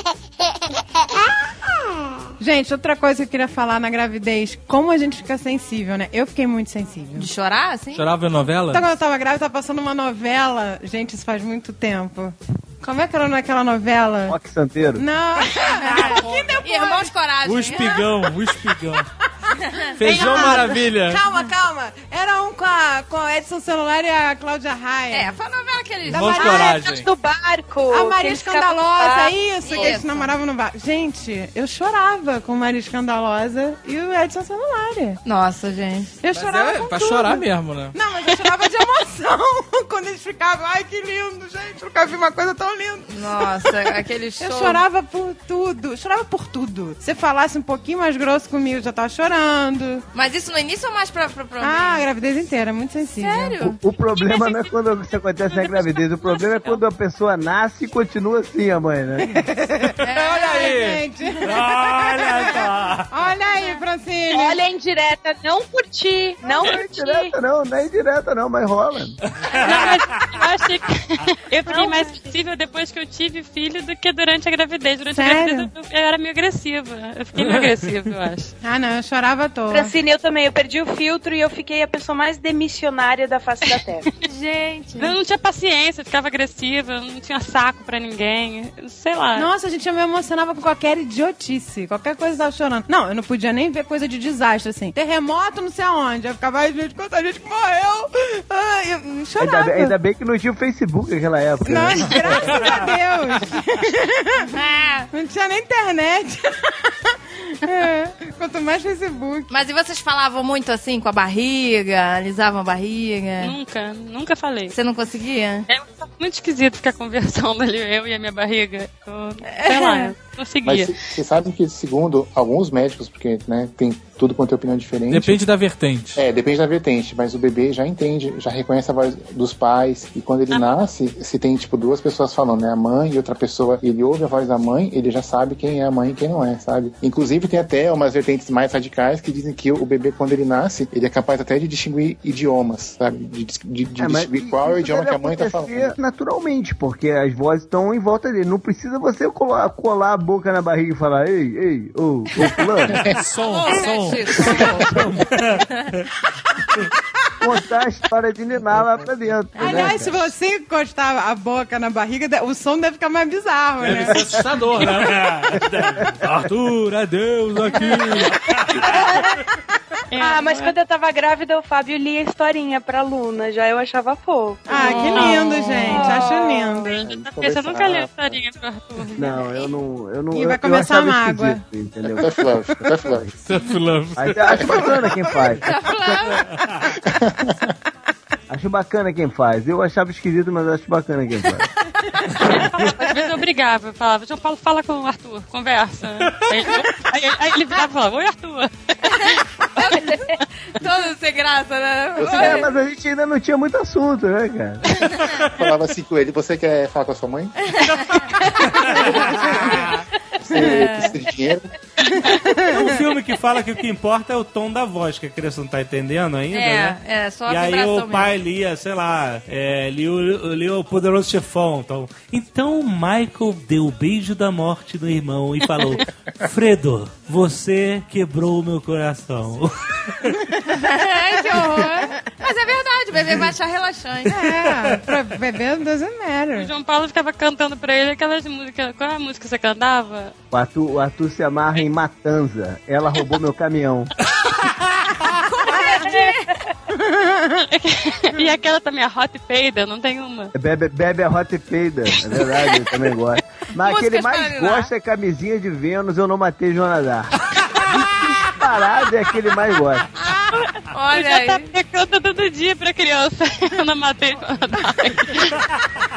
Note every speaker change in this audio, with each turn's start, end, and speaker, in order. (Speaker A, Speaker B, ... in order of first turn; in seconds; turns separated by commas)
Speaker A: 2.4-7.3, Speaker B: 7.2-8.0, Speaker C: 7.9-8.8, Speaker A: 8.7-14.3, Speaker D: 14.3-15.0, Speaker A: 14.9-17.1, Speaker B: 15.5-18.1, Speaker C: 17.4-19.1, Speaker C: 20.0-21.2, Speaker A: 20.0-25.3, Speaker B: 20.1-20.6, Speaker B: 25.1-26.7, Speaker C: 26.1-27.1, Speaker A: 26.1-26.8, Speaker E: 26.6-29.9, Speaker A: 27.9-35.2, Speaker B: 29.6-30.3, Speaker B: 35.2-36.2, Speaker A: 36.2-43.7, Speaker C: 36.3-38.0, Speaker B: 43.1-44.8, Speaker A: 44.4-50.0, Speaker B: 50.1-52.1, Speaker A: 51.6-53.6, Speaker B: 53.2-53.8, Speaker D: 53.7-59.5, Speaker F: 54.2-54.7, Speaker F: 55.5-56.8, Speaker A: 59.7-64.6, Speaker B: 60.0-60.8, Speaker C: 60.1-61.0, Speaker G: 61.4-63.1, Speaker E: 64.3-67.3, Speaker D: 66.4-69.2, Speaker G: 69.4-69.8, Speaker F: 69.5-78.5, Speaker E: 71.7-72.3, Speaker A: 75.1-75.7, Speaker A: 78.6-79.9, Speaker E: 79.7-84.0, Speaker B: 84.2-85.1, Speaker F: 85.0-89.5, Speaker A: 89.3-99.9, Speaker D: 99.4-102.7, Speaker A: 101.7-104.5, Speaker B: 104.5-105.1, Speaker A: 105.1-109.5, Speaker B: 109.5-113.5, Speaker F: 113.4-114.7, Speaker B: 114.7-115.7, Speaker F: 115.7-121.0, Speaker B: 119.4-120.1, Speaker H: 120.6-125.4, Speaker C: 125.1-126.2, Speaker H: 126.2-145.9, Speaker F: 130.5-130.8, Speaker D: 144.0-153.0, Speaker C: 153.0-155.3, Speaker B: 153.4-155.8, Speaker D: 157.4-160.3, Speaker B: 159.6-160.0, Speaker A: 159.6-164.3, Speaker C: 163.8-165.4, Speaker G: 164.8-166.4, Speaker C: 166.2-168.5, Speaker G: 168.5-168.8, Speaker F: 170.1-170.7, Speaker E: 170.2-175.2, Speaker A: 174.7-177.0, Speaker F: 174.8-175.5, Speaker B: 175.2-176.1, Speaker E: 175.9-176.7, Speaker H: 176.9-178.4, Speaker F: 176.9-179.3, Speaker D: 179.1-182.3, Speaker A: 180.3-181.6, Speaker H: 182.2-183.3, Speaker C: 183.4-185.0, Speaker D: 184.2-185.7, Speaker H: 184.5-185.1, Speaker B: 185.6-186.5, Speaker H: 187.1-187.7, Speaker D: 188.5-191.7, Speaker B: 191.4-192.4, Speaker F: 192.4-198.7, Speaker B: 199.1-202.7, Speaker E: 199.9-200.3, Speaker H: 202.2-202.6, Speaker D: 202.3-204.8, Speaker H: 205.6-207.5, Speaker B: 207.7-209.8, Speaker H: 210.4-211.7, Speaker B: 210.5-211.2, Speaker A: 212.1-212.9, Speaker G: 212.7-230.2, Speaker B: 216.5-218.3, Speaker A: 230.3-230.6, Speaker B: 230.7-234.4, Speaker A: 231.5-232.1, Speaker A: 234.3-236.7, Speaker F: 236.5-240.3, Speaker D: 240.5-244.1, Speaker B: 245.2-246.5, Speaker E: 246.0-246.3, Speaker A: 246.9-247.5, Speaker F: 247.7-250.5, Speaker D: 250.5-260.1, Speaker B: 253.8-254.9, Speaker B: 260.9-261.7, Speaker F: 261.1-265.6